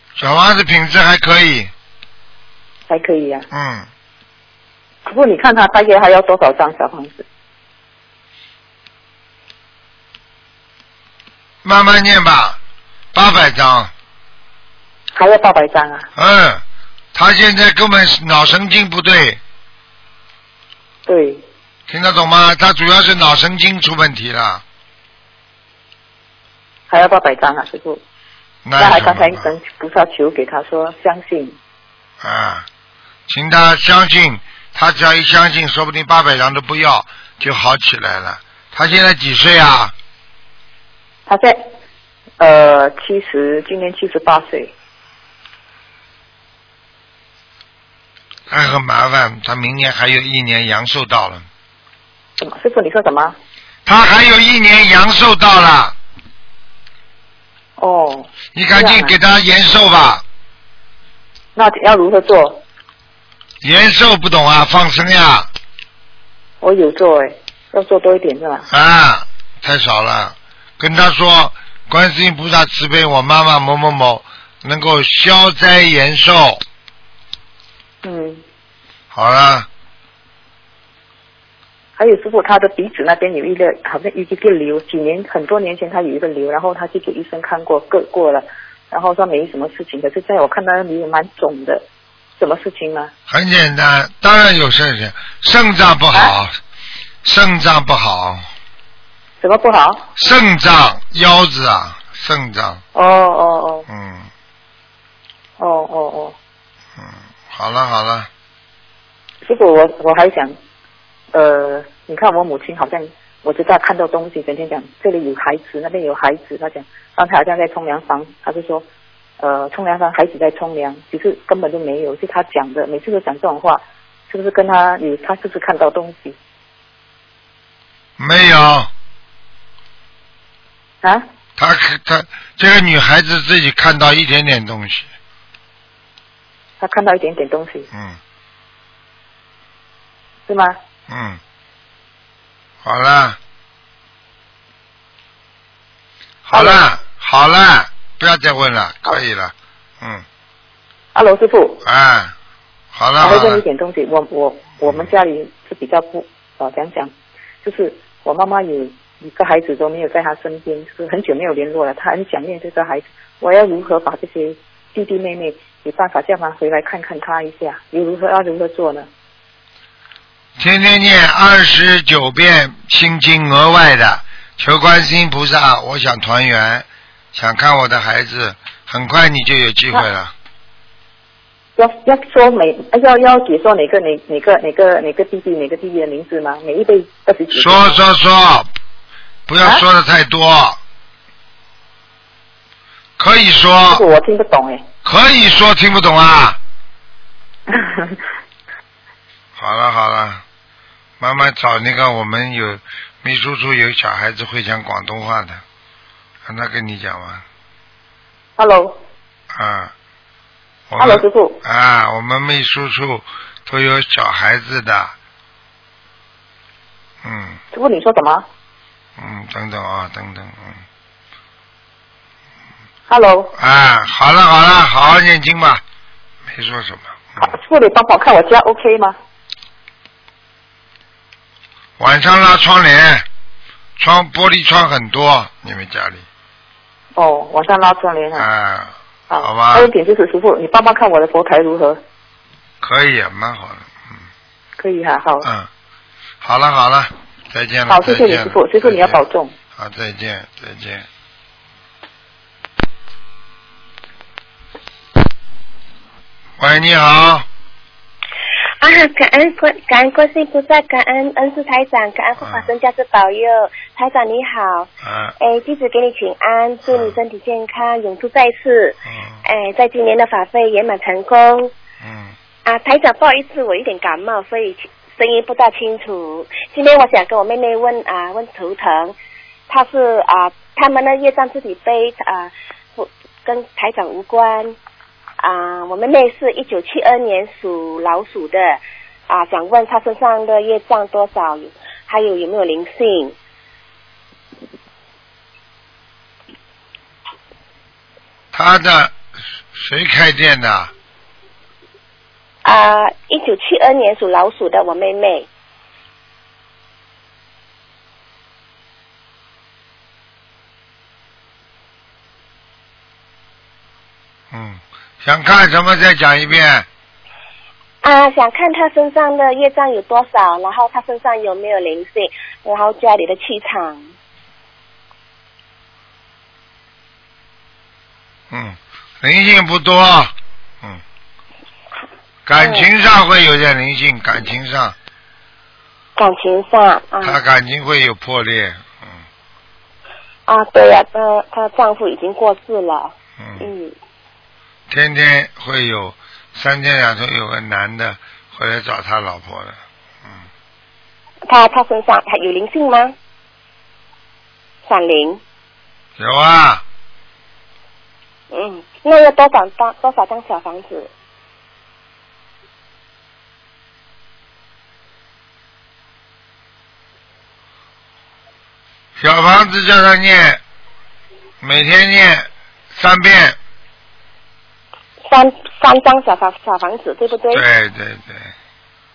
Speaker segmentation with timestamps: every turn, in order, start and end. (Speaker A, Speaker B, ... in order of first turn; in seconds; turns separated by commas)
Speaker A: 0.2-1.7, Speaker B: 2.9-3.5, Speaker A: 3.5-3.9, Speaker B: 5.0-7.2, Speaker A: 11.6-12.6, Speaker A: 13.1-13.9, Speaker B: 15.1-16.1, Speaker A: 16.1-16.6, Speaker A: 17.1-19.4, Speaker B: 21.1-21.4, Speaker A: 21.9-24.6, Speaker B: 26.9-28.0, Speaker A: 28.6-29.5, Speaker B: 28.8-31.6, Speaker A: 32.2-32.6, Speaker A: 33.3-39.9, Speaker B: 41.3-41.7, Speaker B: 42.4-44.7, Speaker A: 48.5-51.4, Speaker B: 52.4-53.4, Speaker A: 53.9-55.9, Speaker B: 57.8-59.1, Speaker A: 58.5-60.2, Speaker B: 61.5-62.6, Speaker A: 63.6-65.5, Speaker B: 66.6-68.7, Speaker A: 68.7-76.6, Speaker B: 78.0-78.4, Speaker A: 79.1-79.7, Speaker B: 82.0-91.8, Speaker B: 92.4-93.1, Speaker A: 93.3-96.5, Speaker A: 97.2-98.5, Speaker B: 99.4-100.0, Speaker A: 100.2-102.8, Speaker B: 102.9-103.9, Speaker A: 103.9-104.3, Speaker B: 105.6-106.3, Speaker A: 107.0-108.3, Speaker B: 109.4-110.6, Speaker B: 111.3-118.8, Speaker B: 119.4-126.3, Speaker A: 128.2-128.9, Speaker A: 131.6-135.1, Speaker B: 136.8-137.9, Speaker A: 137.9-138.2, Speaker B: 140.5-140.8, Speaker A: 141.1-141.4, Speaker A: 142.8-143.4, Speaker A: 146.4-150.2, Speaker B: 146.5-146.8, Speaker B: 151.1-151.8, Speaker A: 151.8-152.3, Speaker A: 152.9-153.6, Speaker B: 153.2-157.1, Speaker B: 157.6-169.1, Speaker A: 170.6-180.3, Speaker B: 181.8-188.0, Speaker A: 187.5-188.7, Speaker A: 189.5-190.8, Speaker A: 193.2-194.0, Speaker B: 193.9-194.8, Speaker A: 195.0-196.6, Speaker B: 197.7-198.2, Speaker A: 199.6-200.4, Speaker A: 201.2-205.6, Speaker A: 206.4-207.4, Speaker B: 208.6-209.0, Speaker A: 209.5-209.9, Speaker A: 210.9-215.1, Speaker B: 211.0-211.6, Speaker A: 217.2-217.6, Speaker B: 217.7-218.4, Speaker A: 219.2-220.8, Speaker B: 223.1-223.5, Speaker A: 223.6-225.8, Speaker A: 226.5-227.5, Speaker B: 227.4-229.2, Speaker A: 232.0-233.2, Speaker A: 234.0-236.2, Speaker B: 237.1-238.5, Speaker A: 238.4-239.9, Speaker B: 239.3-242.0, Speaker A: 242.8-244.2, Speaker B: 244.8-245.5, Speaker A: 245.4-245.7, Speaker A: 246.4-249.2, Speaker B: 247.9-249.5, Speaker A: 249.8-251.0, Speaker A: 256.6-257.4, Speaker C: 258.8-271.7, Speaker A: 262.4-262.7, Speaker A: 265.0-265.3, Speaker A: 266.9-267.1, Speaker A: 272.0-272.3, Speaker C: 272.6-279.1, Speaker C: 279.7-284.8, Speaker C: 285.4-293.4, Speaker A: 298.5-299.1, Speaker A: 299.7-300.9, Speaker C: 302.6-305.5, Speaker A: 314.5-316.9, Speaker C: 318.0-324.1, Speaker A: 328.5-331.0, Speaker A: 332.4-334.9, Speaker C: 332.5-332.9, Speaker C: 336.1-337.4, Speaker A: 337.2-339.2, Speaker C: 340.5-343.9, Speaker A: 343.4-343.7, Speaker A: 344.9-350.4, Speaker C: 351.4-353.1, Speaker C: 354.8-355.4, Speaker A: 356.2-356.8, Speaker C: 358.5-361.1, Speaker A: 369.2-370.6, Speaker A: 371.6-373.6, Speaker C: 375.2-377.6, Speaker A: 377.5-378.5